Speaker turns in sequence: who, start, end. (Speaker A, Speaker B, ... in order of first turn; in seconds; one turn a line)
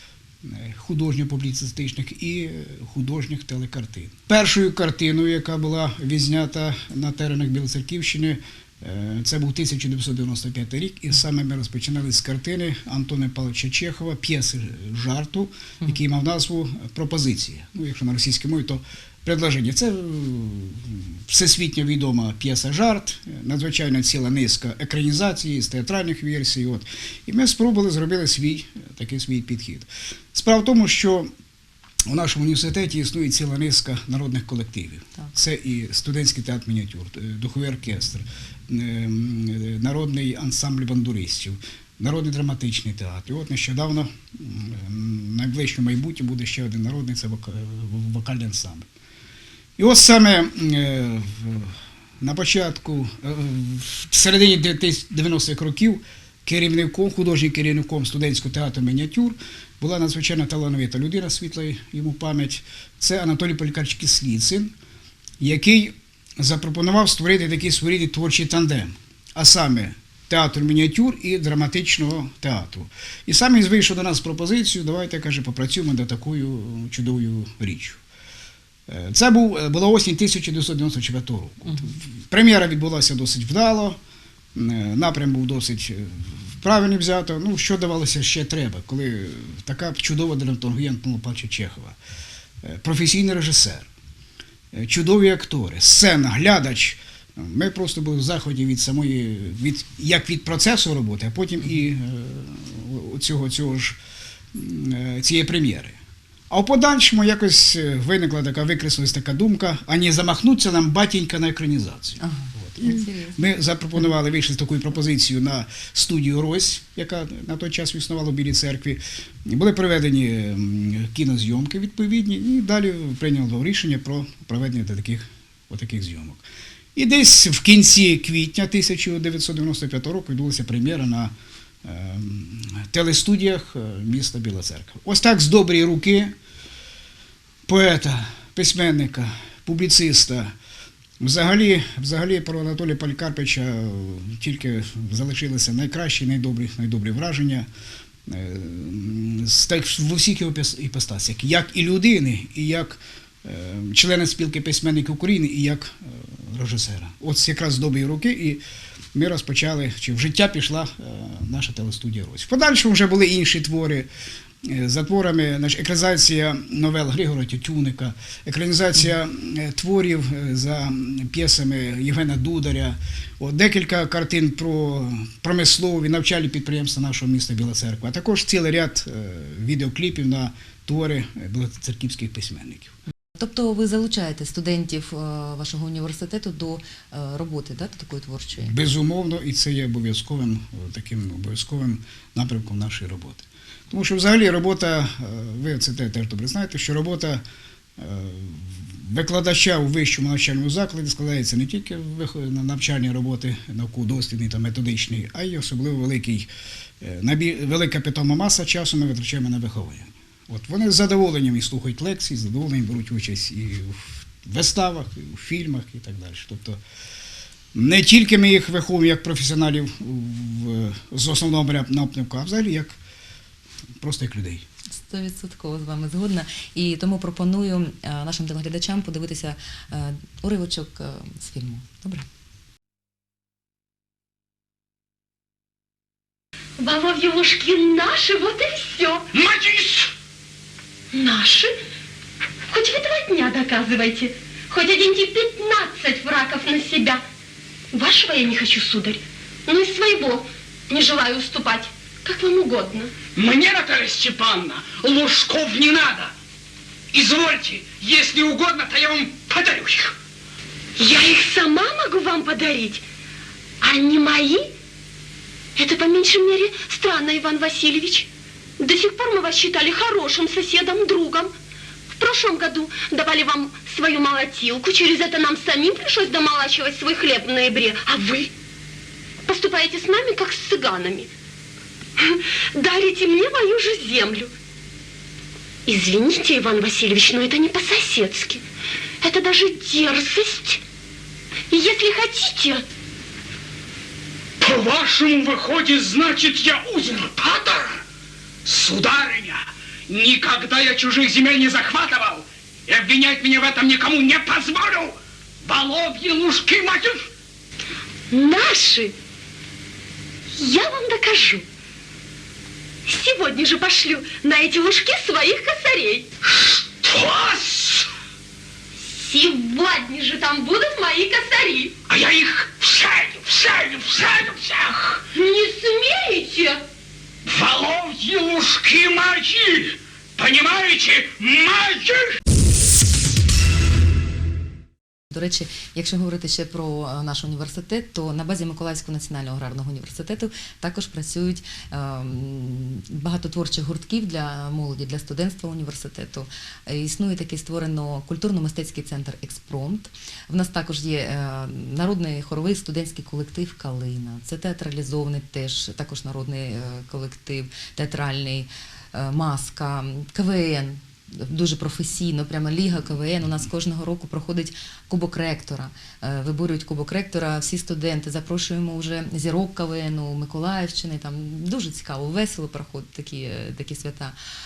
Speaker A: 0.4-31.3
Speaker A: 32.1-48.9
Speaker A: 49.8-64.7
Speaker A: 65.4-78.0
Speaker A: 78.9-84.0
Speaker A: 84.5-92.0
Speaker A: 92.6-93.9
Speaker A: 94.7-104.0
Speaker A: 104.5-106.0
Speaker A: 106.5-136.3
Speaker B: 112.2-113.4
Speaker A: 137.7-140.5
Speaker A: 141.2-147.7
Speaker A: 148.3-158.6
Speaker A: 159.1-164.1
Speaker A: 164.6-182.9
Speaker B: 183.4-188.8
Speaker A: 188.7-197.4
Speaker A: 198.0-206.5
Speaker A: 207.0-216.8
Speaker A: 217.7-223.0
Speaker A: 224.0-224.6
Speaker B: 224.9-232.2
Speaker C: 236.8-239.3
Speaker D: 239.3-240.1
Speaker C: 241.1-241.7
Speaker C: 242.7-247.2
Speaker C: 247.9-253.1
Speaker D: 253.4-256.3
Speaker D: 257.1-260.2
Speaker C: 261.0-263.0
Speaker C: 263.8-264.7
Speaker C: 265.8-268.3
Speaker C: 268.8-271.5
Speaker C: 272.1-278.5
Speaker C: 279.4-281.3
Speaker C: 282.2-284.5
Speaker C: 285.9-288.6
Speaker C: 289.2-290.8
Speaker C: 291.7-292.9
Speaker D: 294.6-298.0
Speaker D: 298.6-307.3
Speaker C: 308.3-309.1
Speaker C: 310.6-311.6
Speaker C: 313.1-316.3
Speaker D: 316.4-318.1
Speaker C: 319.0-321.9
Speaker D: 322.1-325.2
Speaker C: 325.3-326.8
Speaker D: 327.5-332.4
Speaker B: 335.3-374.3